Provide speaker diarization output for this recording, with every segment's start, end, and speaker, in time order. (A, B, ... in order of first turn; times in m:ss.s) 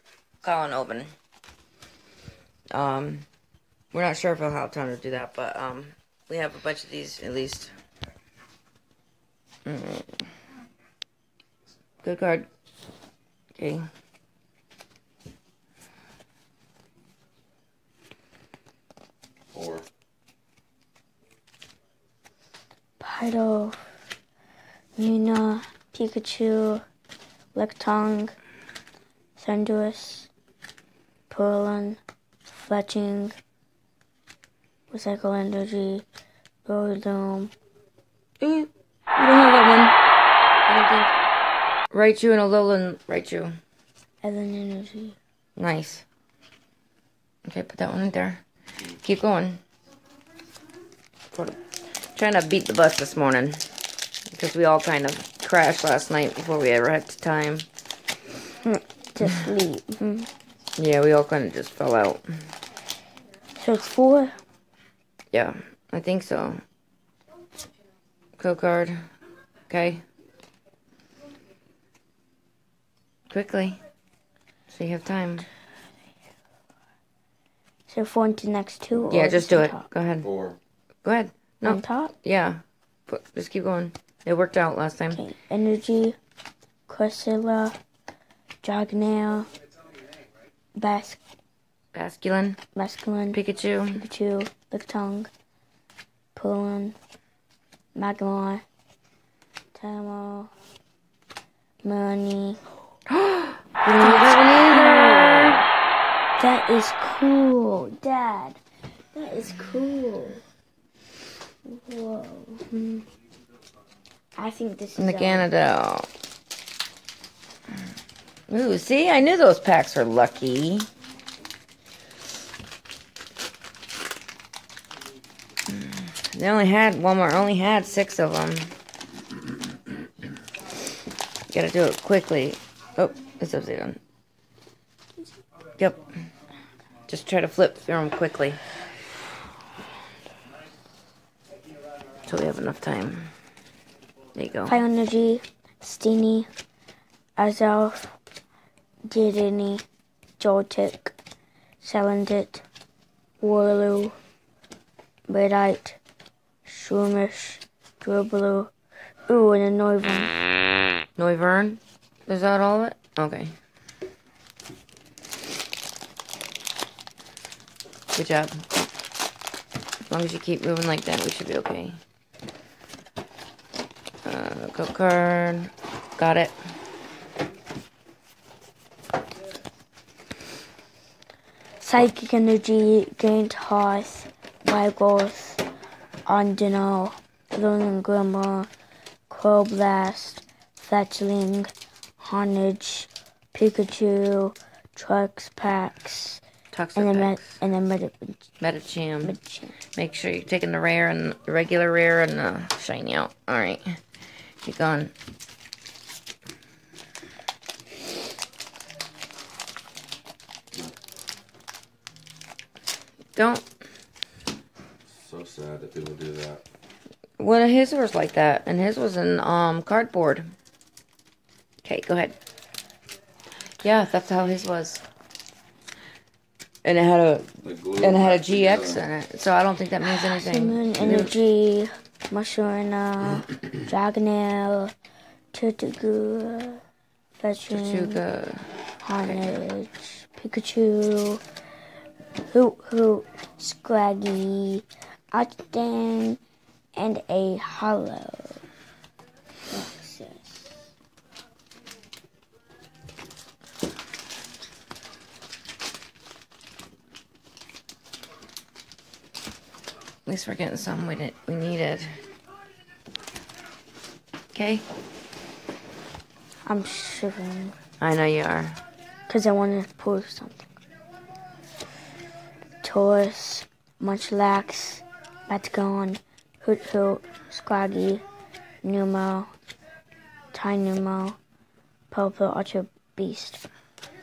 0:00.4-0:01.1 A
0:02.7-0:03.2 A
0:03.9-0:07.7 A
0:09.6-0:10.2 A
0:12.0-0:12.5 A
0:13.6-0:13.8 A
0:19.5-0:19.8 B
0:23.0-0:23.8 C
0:25.0-0:26.8 C
0:27.5-0:28.3 C
0:29.4-0:30.3 C
0:31.3-0:33.3 C
0:34.9-0:36.0 C
0:36.6-0:37.5 C
0:38.4-0:39.9 A
0:40.7-0:41.1 A
0:41.9-0:43.5 A
0:44.2-0:45.2 C
0:45.6-0:46.0 A
0:47.4-0:48.4 A
0:49.0-0:49.6 A
0:51.3-0:51.6 A
0:52.1-0:53.6 A
0:54.3-0:57.7 A
0:58.6-1:00.3 C
1:00.8-1:02.2 A
1:03.6-1:04.4 C
1:05.3-1:06.6 A
1:08.4-1:09.0 A
1:09.7-1:10.0 A
1:13.3-1:13.8 A
1:14.7-1:15.5 A
1:17.9-1:19.9 C
1:19.1-1:20.3 A
1:20.2-1:20.6 B
1:21.0-1:25.2 A
1:21.6-1:22.1 C
1:25.1-1:26.2 C
1:26.9-1:27.8 C
1:28.6-1:29.5 C
1:30.7-1:31.2 C
1:31.9-1:32.6 A
1:32.7-1:33.4 C
1:33.3-1:34.0 A
1:33.9-1:35.3 C
1:36.3-1:37.0 C
1:37.9-1:38.6 C
1:39.7-1:40.5 C
1:41.8-1:42.6 C
1:43.1-1:45.6 A
1:43.8-1:45.6 C
1:46.4-1:48.6 C
1:49.1-1:50.4 C
1:51.6-1:53.0 C
1:54.4-1:55.5 C
1:55.0-1:56.1 A
1:58.5-2:00.9 A
2:05.8-2:08.7 A
2:11.5-2:14.0 A
2:17.1-2:18.6 A
2:22.2-2:23.3 A
2:24.3-2:24.8 A
2:24.7-2:26.5 C
2:27.4-2:28.2 C
2:29.0-2:29.8 C
2:30.4-2:31.1 C
2:31.8-2:32.6 C
2:33.4-2:34.2 C
2:35.3-2:36.0 C
2:36.6-2:38.7 C
2:39.3-2:40.3 C
2:41.2-2:43.5 A
2:48.1-2:48.6 A
2:50.1-2:52.0 A
2:54.2-2:56.5 A
3:01.8-3:05.6 C
3:06.2-3:08.7 C
3:09.3-3:16.4 C
3:16.7-3:17.5 A
3:17.0-3:18.4 C
3:18.6-3:19.3 A
3:19.2-3:19.7 C
3:19.9-3:24.0 A
3:24.6-3:25.1 A
3:33.4-3:33.6 A
3:35.1-3:36.6 B
3:37.4-3:40.5 A
3:41.8-3:42.3 A
3:43.8-3:45.0 A
3:46.8-3:51.3 A
3:47.6-3:49.0 B
3:50.0-3:54.9 C
3:55.5-3:56.8 C
3:57.4-3:58.2 C
3:57.7-3:58.6 A
3:59.0-4:01.4 C
3:59.2-3:59.5 A
4:02.5-4:06.4 C
4:06.9-4:08.6 C
4:09.7-4:10.8 C
4:20.2-4:22.2 A
4:24.5-4:24.8 A
4:26.6-4:27.7 C
4:28.0-4:28.8 A
4:29.3-4:30.7 C
4:32.8-4:38.2 C
4:38.8-4:39.5 C
4:40.5-4:41.4 C
4:42.1-4:43.6 C